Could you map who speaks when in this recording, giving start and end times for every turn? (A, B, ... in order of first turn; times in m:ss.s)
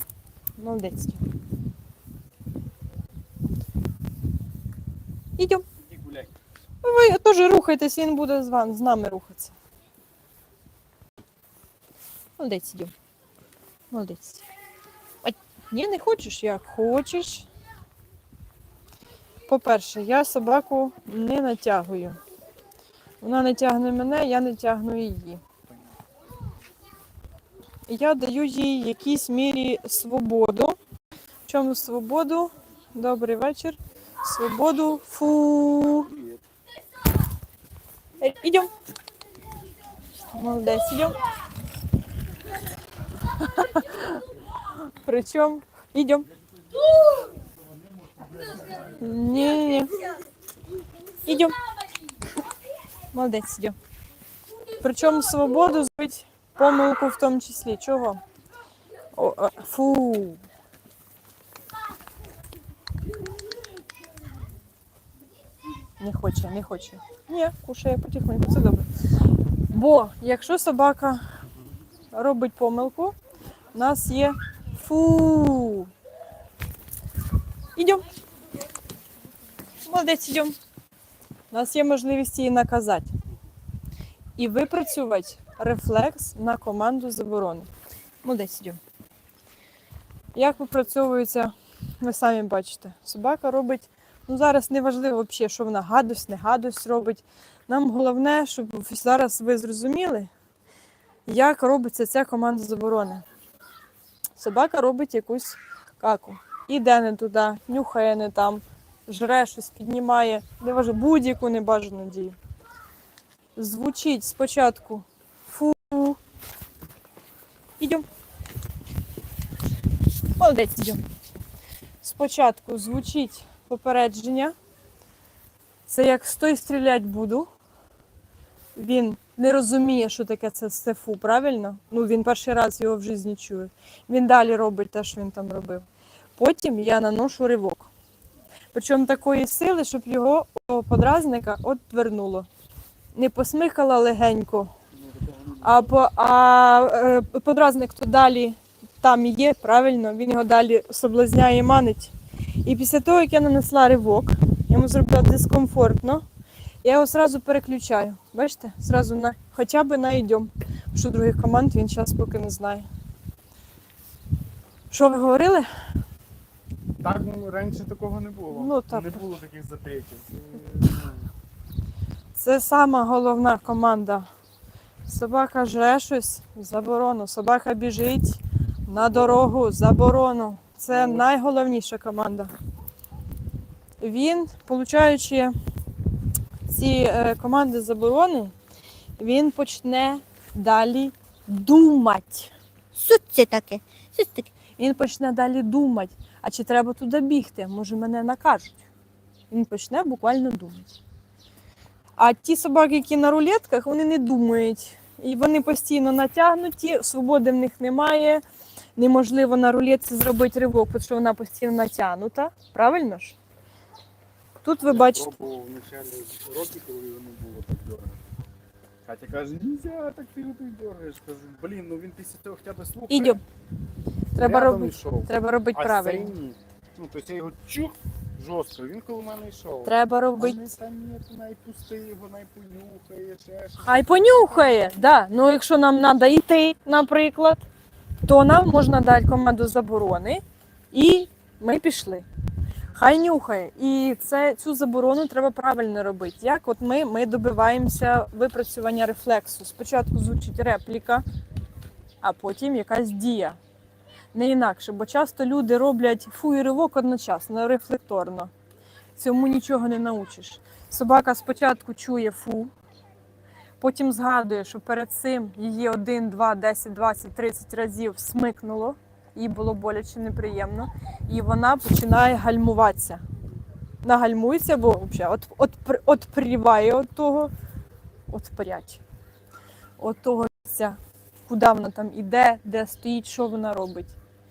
0:00.6-0:01.2 A
0:05.4-0:05.6 A
0:05.8-0:06.3 B
0:06.8-0:09.5 A
0:12.4-0:12.9 A
0:13.9-0:14.4 A
0:15.2-0:17.5 A
0:19.5-0:22.2 A
0:23.2-0:25.4 A
0:27.9-0:30.8 A
0:31.5-0:36.1 A
0:38.2-0:38.7 A
0:40.3-0:41.2 A
0:43.4-0:44.1 A
0:44.8-0:46.3 A
0:48.8-0:50.0 A
0:51.2-0:51.6 A
0:53.1-0:53.8 A
0:54.8-0:58.2 A
0:59.2-1:00.4 A
1:06.0-1:08.9 A
1:09.7-1:11.2 A
1:12.1-1:13.2 A
1:13.7-1:15.9 A
1:17.8-1:18.0 A
1:19.8-1:20.6 A
1:21.5-1:23.1 A
1:24.4-1:27.7 A
1:28.2-1:28.8 A
1:30.3-1:40.3 A
1:41.3-1:43.2 A
1:44.4-1:52.4 A
1:53.6-1:56.2 A
1:57.8-1:58.0 A
2:00.4-2:01.0 A
2:02.0-2:04.5 A
2:05.9-2:07.5 A
2:08.7-2:15.8 A
2:16.4-2:17.9 A
2:18.7-2:22.5 A
2:23.1-2:24.7 A
2:24.9-2:25.9 B
2:25.6-2:36.2 A
2:36.8-2:42.8 A
2:44.9-2:45.7 A
2:47.0-2:51.3 B
2:48.5-2:49.2 A
2:52.3-2:54.3 A
2:55.0-3:02.5 A
2:59.0-2:59.4 B
3:00.9-3:01.3 B
3:04.0-3:05.5 A
3:06.7-3:08.5 A
3:09.2-3:18.8 A
3:19.5-3:21.0 A
3:22.2-3:28.4 A
3:29.0-3:33.4 A
3:34.6-3:35.4 A
3:34.8-3:38.2 B
3:39.0-3:43.4 B
3:43.1-3:43.4 A
3:44.3-3:46.3 A
3:44.4-3:55.0 B
3:49.8-3:50.6 A
3:53.8-3:57.6 A
3:58.2-4:02.2 A
4:02.9-4:11.2 A
4:12.2-4:13.6 A
4:14.3-4:18.5 A
4:19.2-4:22.7 A
4:23.8-4:33.2 A
4:34.0-4:37.5 A
4:38.3-4:39.0 A
4:40.0-4:44.1 A